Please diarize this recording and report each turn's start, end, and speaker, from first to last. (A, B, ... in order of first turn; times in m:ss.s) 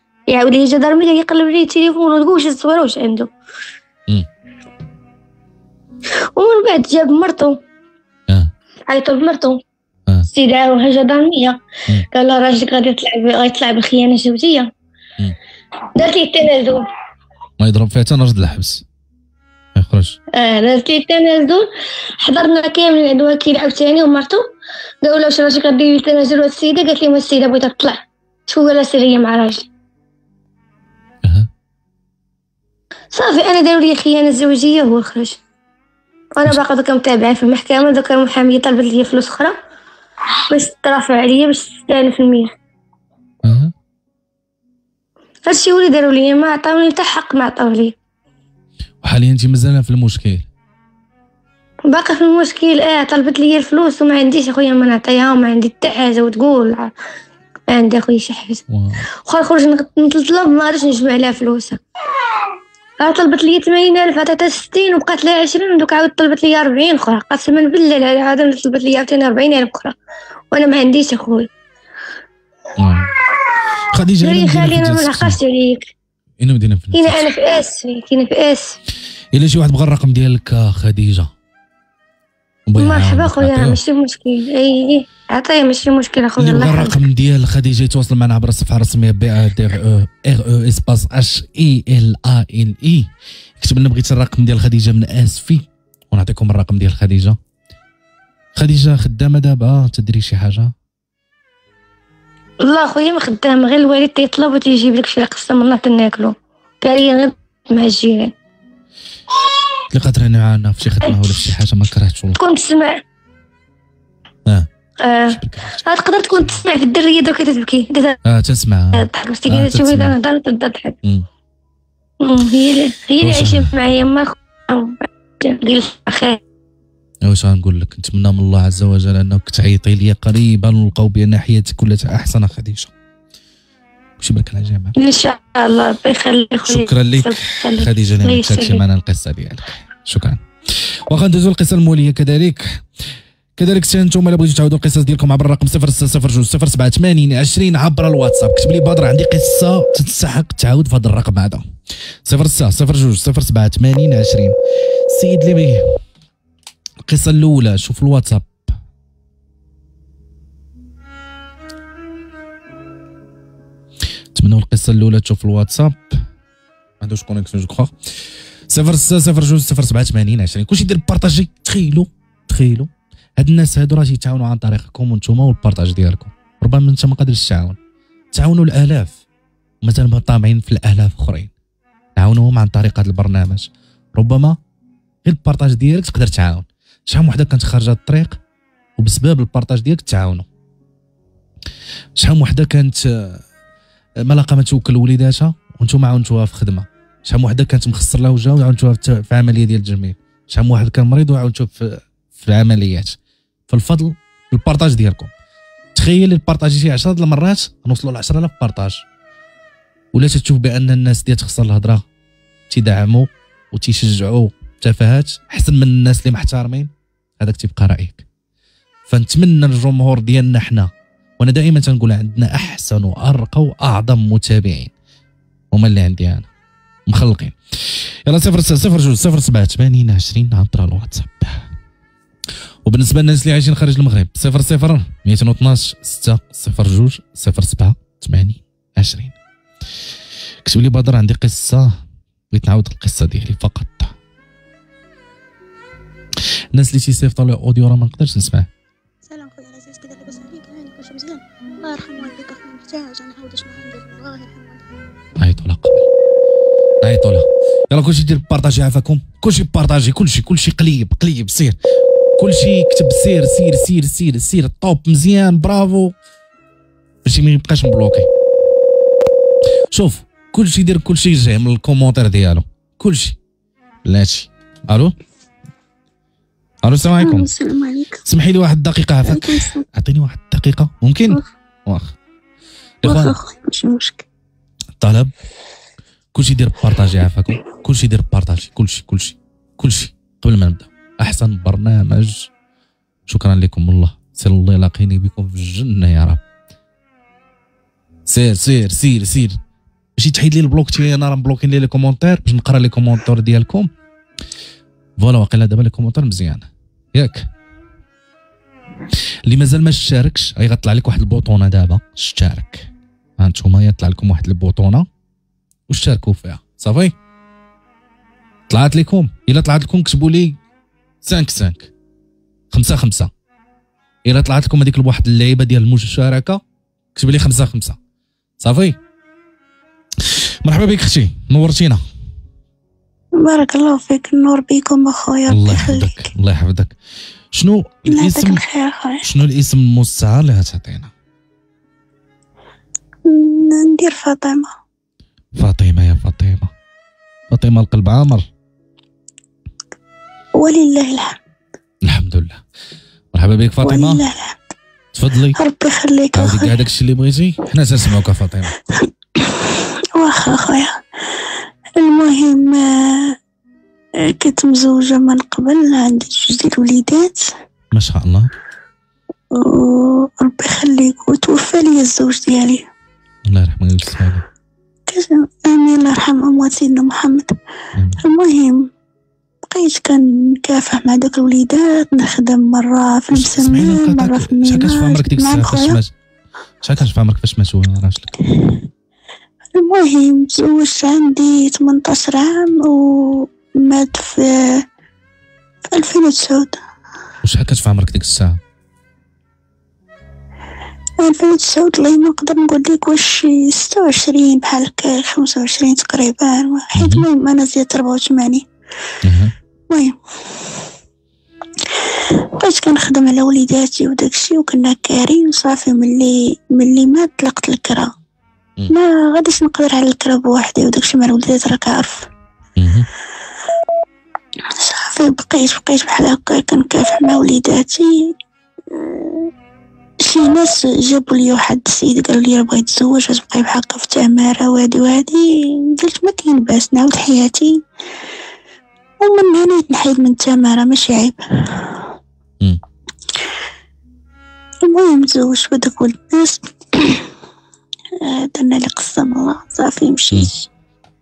0:00.3-0:03.3 A
0:06.3-0:07.6 A
0:08.9-0:09.6 A
0:10.3-0:11.6 A
0:12.1-0:14.7 A
0:16.0-0:16.9 A
0:17.6-0:18.8 B
0:19.8-0:20.2 B
0:20.3-0:21.7 A
0:22.2-0:24.4 A
0:25.0-0:29.7 A
0:33.1-0:35.4 A
0:36.4-0:39.6 A
0:40.5-0:42.5 A
0:43.4-0:43.7 B
0:45.4-0:48.0 A
0:49.0-0:50.5 B
0:51.9-0:56.9 A
0:57.7-0:58.6 A
0:58.7-0:59.1 B
0:59.2-1:01.8 A
1:03.0-1:10.0 A
1:10.5-1:11.5 A
1:12.8-1:13.1 B
1:13.9-1:15.4 B
1:14.2-1:15.9 A
1:16.4-1:17.3 B
1:16.9-1:18.8 A
1:19.3-1:21.3 B
1:22.7-1:23.8 B
1:22.8-1:27.0 A
1:26.4-1:33.1 B
1:33.6-1:37.4 B
1:38.6-1:40.7 B
1:42.6-1:48.3 A
1:49.9-1:52.4 B
1:52.4-1:53.0 A
1:55.0-1:58.2 A
1:55.3-1:55.8 B
1:58.2-2:00.2 B
1:58.9-2:01.0 A
2:02.2-2:06.4 A
2:03.2-2:03.8 B
2:07.2-2:12.9 B
2:14.2-2:15.0 B
2:15.0-2:18.8 A
2:16.6-2:20.4 B
2:21.1-2:22.8 B
2:23.6-2:31.6 B
2:32.2-2:34.6 B
2:35.1-2:36.0 B
2:37.1-2:38.7 B
2:44.3-2:46.2 B
2:47.0-2:47.9 B
2:48.7-2:57.8 B
2:58.3-2:59.2 B
2:59.8-3:01.5 B
3:02.2-3:04.6 B
3:05.2-3:08.4 B
3:09.0-3:10.5 B
3:12.2-3:13.4 B
3:14.2-3:23.2 B
3:23.7-3:25.3 B
3:26.0-3:29.0 B
3:30.1-3:32.0 B
3:32.7-3:38.2 B
3:39.1-3:44.9 B
3:45.7-3:46.5 B
3:47.1-3:51.7 B
3:52.8-3:59.4 B
4:00.7-4:01.9 B
4:02.5-4:04.1 B
4:06.8-4:08.7 B
4:09.2-4:14.8 C
4:15.4-4:16.1 B
4:17.0-4:21.8 B
4:22.4-4:26.2 B
4:27.2-4:28.3 B
4:29.9-4:33.4 B
4:34.0-4:35.1 B
4:36.8-4:37.5 B
4:37.2-4:38.2 C
4:38.2-4:42.2 B
4:39.2-4:39.8 C
4:43.0-4:43.4 B
4:43.0-4:44.2 C
4:45.0-4:45.3 B
4:46.3-4:52.5 B
4:53.3-4:56.4 B
4:58.3-4:59.6 B
5:00.2-5:03.9 B
5:05.2-5:07.5 B
5:09.5-5:15.1 B
5:15.9-5:17.1 B
5:18.7-5:20.6 B
5:21.2-5:21.9 B
5:22.7-5:23.3 B
5:24.2-5:26.6 B
5:27.2-5:28.0 B
5:28.6-5:29.0 B
5:30.2-5:32.0 B
5:33.4-5:36.2 C
5:35.5-5:37.0 B
5:37.5-5:38.6 B
5:38.1-5:39.2 C
5:39.2-5:41.1 B
5:43.2-5:44.7 C
5:45.6-5:46.7 B
5:47.5-5:48.4 B
5:50.6-5:51.4 C
5:52.0-5:52.6 B
5:53.3-5:54.2 B
5:53.8-5:54.7 C
5:55.1-5:55.6 B
5:55.6-5:56.7 C
5:56.3-5:58.8 B
5:58.9-6:03.4 C
6:04.2-6:07.5 C
6:07.9-6:08.5 B
6:09.5-6:12.9 C
6:13.5-6:14.4 B
6:15.1-6:17.6 C
6:18.0-6:18.2 B
6:18.2-6:18.9 C
6:19.7-6:26.0 C
6:23.3-6:26.1 B
6:26.8-6:28.3 B
6:28.6-6:28.8 C
6:29.7-6:34.8 C
6:35.9-6:36.8 C
6:37.4-6:38.6 B
6:41.2-6:48.7 C
6:47.0-6:47.2 B
6:49.2-6:49.5 B
6:49.9-6:50.8 C
6:51.9-6:58.1 C
6:58.9-7:02.3 C
7:02.8-7:03.1 B
7:04.8-7:08.3 C
7:08.9-7:09.5 C
7:10.2-7:17.8 C
7:19.2-7:22.1 C
7:24.8-7:27.3 C
7:28.2-7:30.7 C